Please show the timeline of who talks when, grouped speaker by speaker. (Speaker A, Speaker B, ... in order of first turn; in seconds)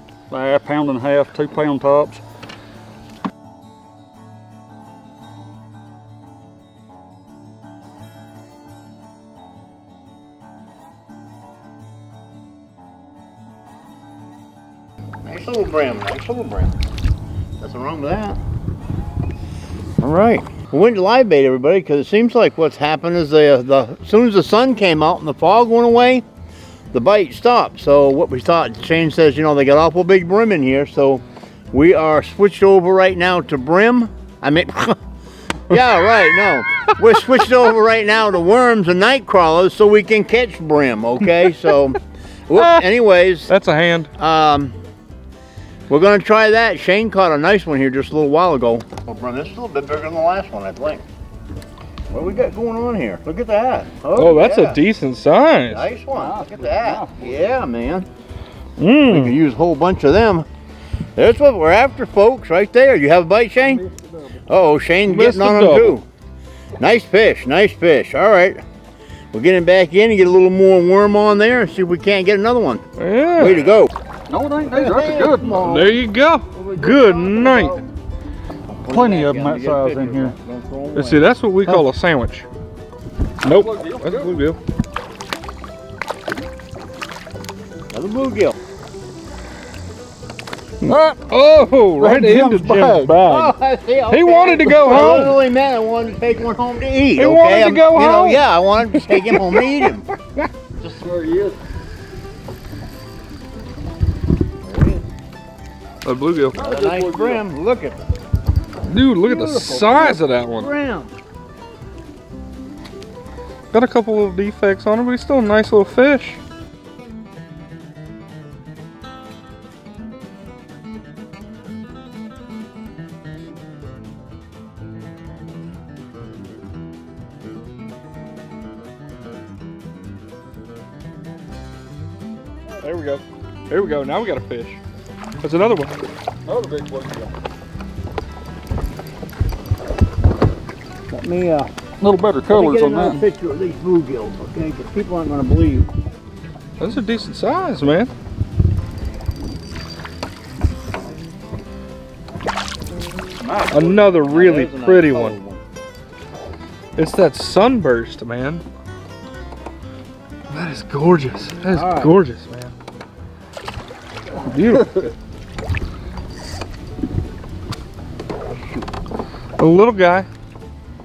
Speaker A: 0.3-2.2, 56.1-57.2, 63.6-64.4, 74.3-75.7, 78.9-80.3, 83.4-84.5, 90.9-91.3, 92.0-93.2, 101.0-101.6, 106.6-107.4, 136.5-137.3, 142.0-143.2, 153.4-154.0, 164.7-165.0
Speaker B: 15.2-16.8, 17.6-18.4, 20.0-26.2, 26.9-35.0, 35.7-43.5, 44.2-44.8, 45.9-51.0, 52.1-54.8, 55.7-58.1, 59.1-60.5, 61.2-63.9, 64.5-66.0, 66.8-68.6, 69.3-72.8, 73.4-73.9, 74.7-77.8, 78.7-81.8, 87.9-88.6, 93.2-100.1, 104.6-105.1, 106.6-108.0, 109.2-111.2, 141.1-141.7, 142.5-145.9, 153.5-155.6, 161.7-162.2
Speaker C: 43.5-44.1, 54.1-55.8, 58.8-59.3, 65.1-66.0, 73.0-73.7, 75.6-77.8, 80.9-82.5, 83.4-84.6, 90.8-93.5, 94.1-95.4, 97.2-100.5, 106.0-106.6, 108.9-110.7, 113.7-116.4, 132.8-134.8, 135.4-136.0, 146.8-148.1, 153.7-155.4, 157.0-158.6, 160.5-162.8, 164.4-165.1, 169.6-170.3